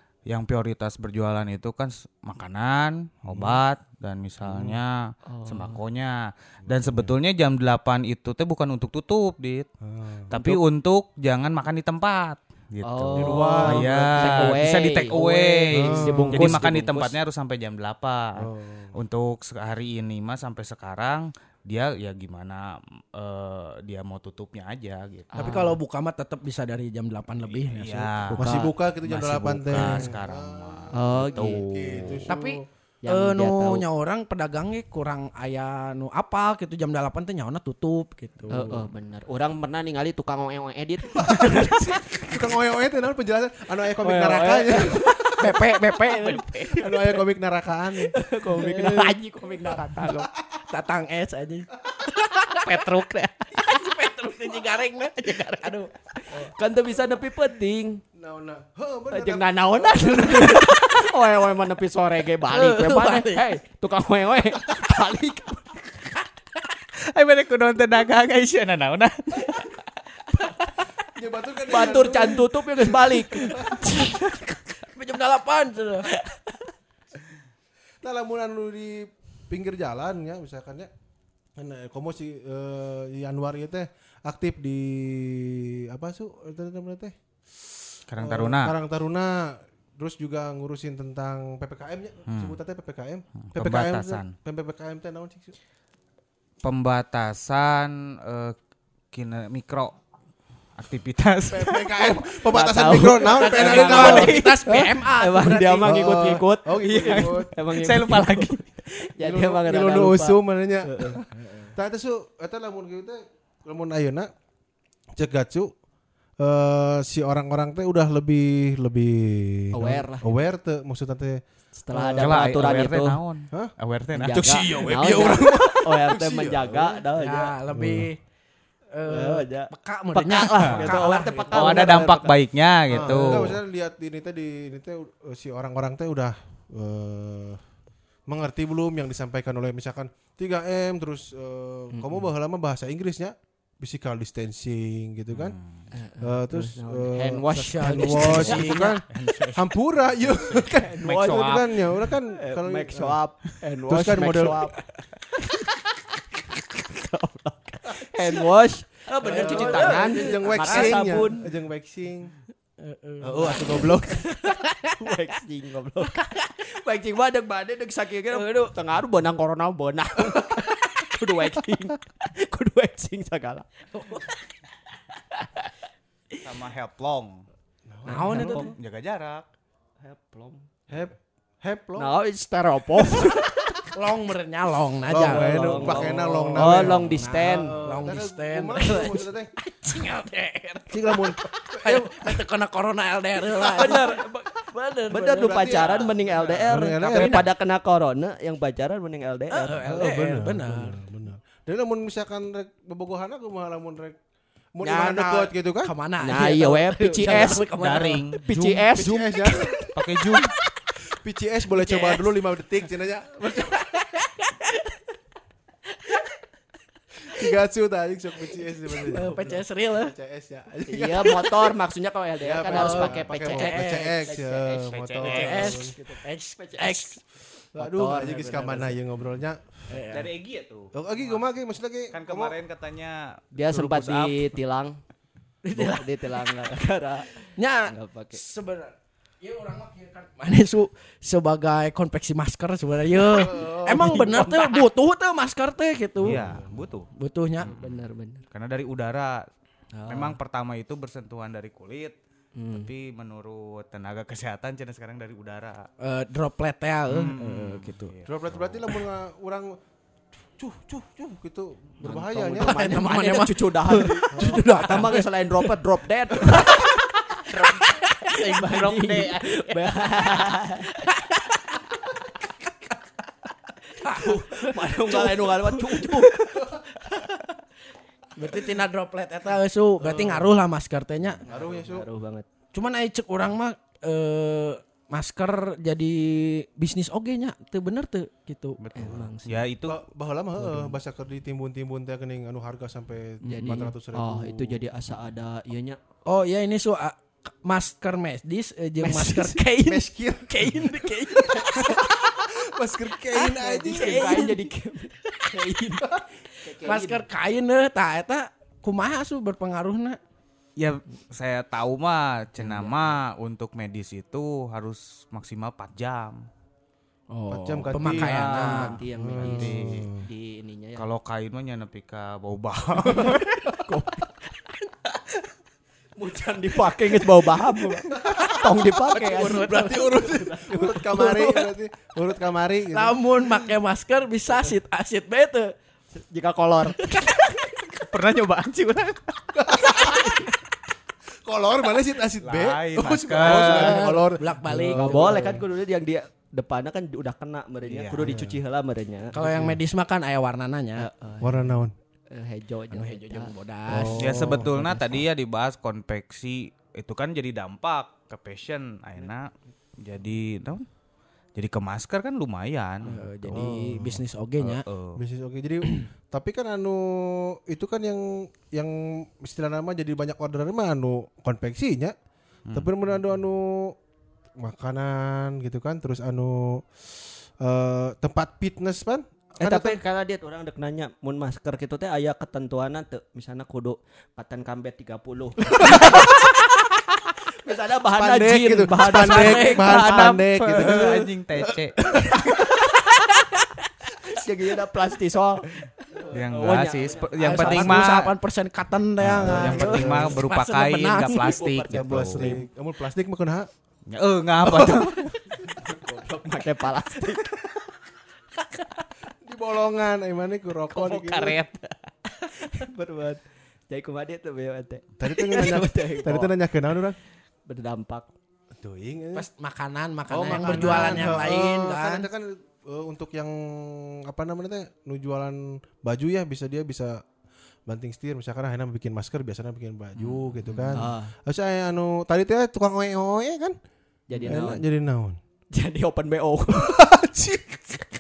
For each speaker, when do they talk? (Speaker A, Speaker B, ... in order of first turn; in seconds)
Speaker A: 0.3-6.2, 6.7-9.7, 10.3-18.4, 18.9-25.3, 27.5-32.3, 52.7-53.3, 67.1-69.8, 88.1-88.7, 92.3-92.6, 93.5-94.3, 96.6-98.6, 99.1-100.0, 100.8-102.2, 106.8-108.6, 122.2-124.6, 130.6-130.9, 131.5-133.6, 145.3-145.9, 149.1-149.7, 150.2-151.8, 176.4-177.4, 178.4-179.5, 207.8-208.9, 209.9-210.5, 224.9-225.7, 230.1-231.4, 232.1-234.5, 246.2-247.1, 247.6-248.0, 248.5-249.4, 250.1-252.2, 252.7-255.9, 257.1-258.8, 268.3-269.5, 288.8-290.0, 310.8-316.4, 319.4-320.1, 321.0-323.4, 338.0-339.3, 342.4-344.0, 347.8-348.3, 354.2-359.5, 360.0-360.9, 361.6-363.6, 364.6-365.2, 389.8-392.1, 396.3-398.3, 399.2-402.6, 404.1-405.6, 411.1-412.1, 420.5-421.5, 430.2-431.0
Speaker B: 3.3-3.6, 4.5-4.8, 6.7-7.1, 9.8-10.3, 13.2-14.6, 15.8-16.6, 18.4-19.0, 28.4-32.7, 41.2-45.5, 46.8-48.1, 58.2-60.8, 71.1-73.8, 78.0-80.9, 81.6-95.5, 101.5-107.5, 109.2-114.3, 115.2-115.7, 116.4-122.8, 124.4-126.9, 127.7-128.1, 132.9-137.6, 138.3-145.6, 146.2-153.2, 153.9-154.6, 159.3-162.3, 163.2-164.3, 177.9-178.5, 180.9-182.1, 185.1-189.5, 190.9-192.4, 193.6-194.0, 195.4-197.4, 199.8-204.2, 204.8-205.9, 208.9-209.9, 211.1-213.9, 217.3-221.7, 222.4-225.9, 227.8-230.0, 230.9-232.5, 243.3-244.4, 246.2-246.7, 258.3-259.7, 260.6-262.9, 264.3-264.7, 280.0-280.5, 281.5-282.1, 289.9-294.8, 299.9-304.5, 317.5-320.3, 329.1-333.2, 339.6-340.4, 341.4-345.6, 348.2-348.6, 349.4-349.8, 351.4-351.9, 353.9-354.8, 363.5-364.2, 365.2-372.1, 372.7-373.9, 374.6-380.0, 388.2-391.1, 399.3-400.4, 401.9-403.7, 404.6-405.0, 409.4-411.6, 415.2-417.2, 418.8-419.5, 420.3-427.2, 427.9-433.8, 434.4-435.4, 436.9-438.0
Speaker C: 5.3-5.8, 10.3-10.6, 12.8-17.2, 25.3-25.8, 30.9-31.6, 33.0-33.9, 38.5-42.4, 44.0-47.2, 48.0-50.3, 56.3-58.0, 59.1-65.9, 71.7-74.4, 102.3-111.2, 119.7-120.3, 121.7-123.2, 124.2-127.6, 129.1-132.4, 141.9-142.3, 145.9-149.0, 150.8-151.6, 152.4-154.8, 156.7-161.4, 165.0-173.7, 178.1-178.7, 180.0-180.6, 182.0-183.9, 185.2-187.8, 193.7-199.9, 204.8-205.5, 206.2-207.7, 208.4-209.7, 220.9-227.1, 227.8-228.8, 233.5-235.0, 235.7-237.3, 237.9-238.4, 243.6-244.8, 247.6-248.5, 249.9-250.4, 252.6-252.9, 262.0-266.9, 268.0-270.9, 274.1-276.9, 281.5-282.5, 289.0-289.6, 290.6-290.9, 293.4-296.0, 299.0-299.7, 303.9-307.2, 312.6-313.2, 318.1-321.1, 323.2-324.3, 326.2-331.6, 336.1-337.0, 344.9-349.4, 351.0-351.7, 352.3-353.5, 379.6-386.4, 387.6-391.1, 392.1-393.1, 394.3-398.0, 399.6-400.0, 401.3-402.6, 405.7-407.6, 411.1-411.6, 412.5-416.5, 417.7-418.3, 430.9-431.3, 434.3-434.8, 435.7-437.0
Speaker D: 25.4-30.1, 32.3-38.9, 45.4-46.8, 48.6-48.9, 50.7-52.8, 53.6-55.9, 62.5-63.5, 74.9-76.1, 103.3-105.9, 111.4-111.7, 127.2-128.2, 128.9-132.0, 147.5-149.0, 159.2-161.3, 162.8-163.9, 173.9-174.3, 178.1-178.7, 183.9-194.2, 194.7-196.1, 197.1-197.4, 199.5-201.0, 205.8-208.3, 211.9-212.1, 213.9-214.5, 219.0-220.1, 222.7-224.3, 225.2-227.2, 228.4-228.9, 229.9-230.3, 235.6-236.1, 237.3-246.4, 247.2-247.7, 256.0-258.1, 262.6-265.7, 266.4-266.9, 267.7-268.4, 271.0-271.6, 274.0-276.3, 278.4-281.4, 282.7-288.8, 296.3-302.0, 303.3-304.6, 306.7-310.2, 317.3-319.0, 329.1-330.2, 332.9-335.7, 337.1-337.6, 343.4-345.6, 349.3-351.1, 352.9-354.6, 363.1-364.8, 389.1-389.9, 397.4-401.6, 419.4-422.3